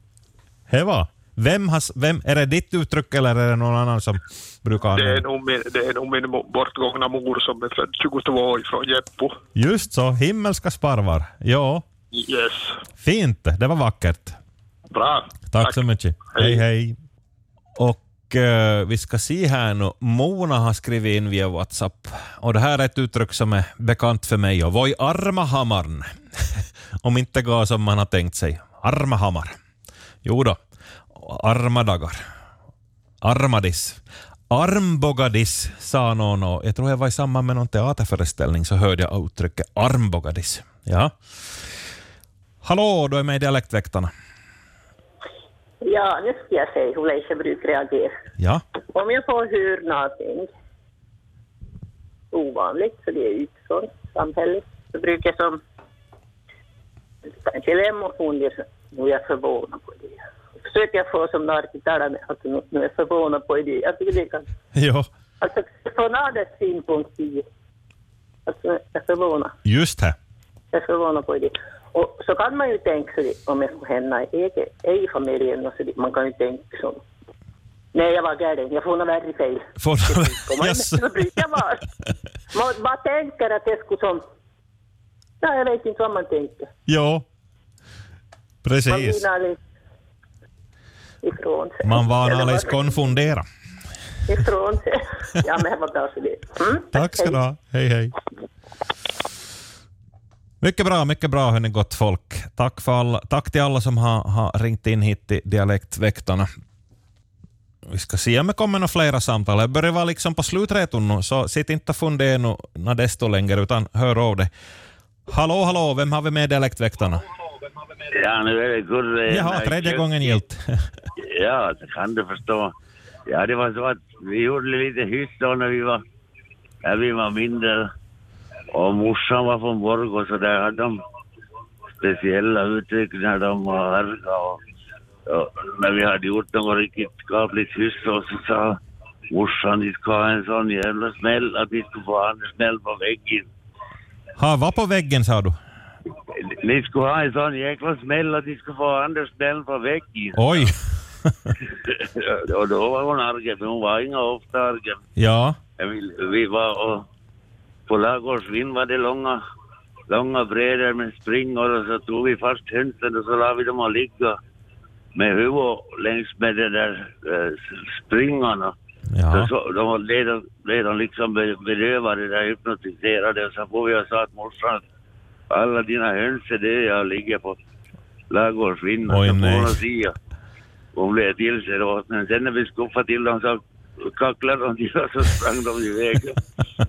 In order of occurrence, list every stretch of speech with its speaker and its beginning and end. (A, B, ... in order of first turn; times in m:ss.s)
0:00.7-0:05.2 A
0:04.9-0:09.4 B
0:09.5-0:11.8 A
0:12.1-0:12.8 B
0:13.0-0:14.4 A
0:14.9-0:15.8 B
0:15.5-0:17.0 A
0:16.4-0:16.6 B
0:17.8-0:29.5 A
0:30.2-0:30.6 A
0:31.1-0:32.2 A
0:33.2-0:34.0 A
0:34.5-0:41.1 A
0:42.6-0:44.1 A
0:45.8-0:48.1 C
0:48.9-0:50.5 C
0:52.3-0:55.6 C
0:57.3-1:04.4 C
1:04.8-1:05.1 A
1:05.4-1:07.4 C
1:08.4-1:09.5 C
1:09.6-1:10.1 A
1:10.7-1:17.0 C
1:17.9-1:21.8 C
1:19.8-1:21.0 A
1:22.5-1:24.2 C
1:25.4-1:26.7 C
1:26.9-1:27.2 A
1:28.6-1:29.2 A
1:28.9-1:29.6 C
1:31.2-1:32.8 C
1:31.8-1:33.4 A
1:34.3-1:37.4 C
1:36.9-1:38.1 A
1:40.6-1:46.5 A
1:47.9-1:54.5 A
1:55.3-1:57.2 A
1:58.1-2:00.4 D
1:59.3-2:00.6 A
2:01.2-2:02.7 D
2:03.3-2:06.0 D
2:06.8-2:07.9 D
2:08.7-2:11.0 D
2:12.0-2:14.6 D
2:15.3-2:18.8 D
2:19.3-2:23.5 D
2:24.4-2:25.5 A
2:26.3-2:30.7 D
2:30.4-2:30.7 A
2:31.9-2:35.0 D
2:35.2-2:35.6 A
2:35.8-2:37.0 D
2:37.9-2:39.4 D
2:40.1-2:44.4 D
2:45.2-2:48.7 D
2:49.1-2:49.5 A
2:49.3-2:54.8 D
2:55.5-2:57.6 D
2:58.3-3:00.1 D
2:59.1-2:59.8 A
3:00.9-3:06.4 D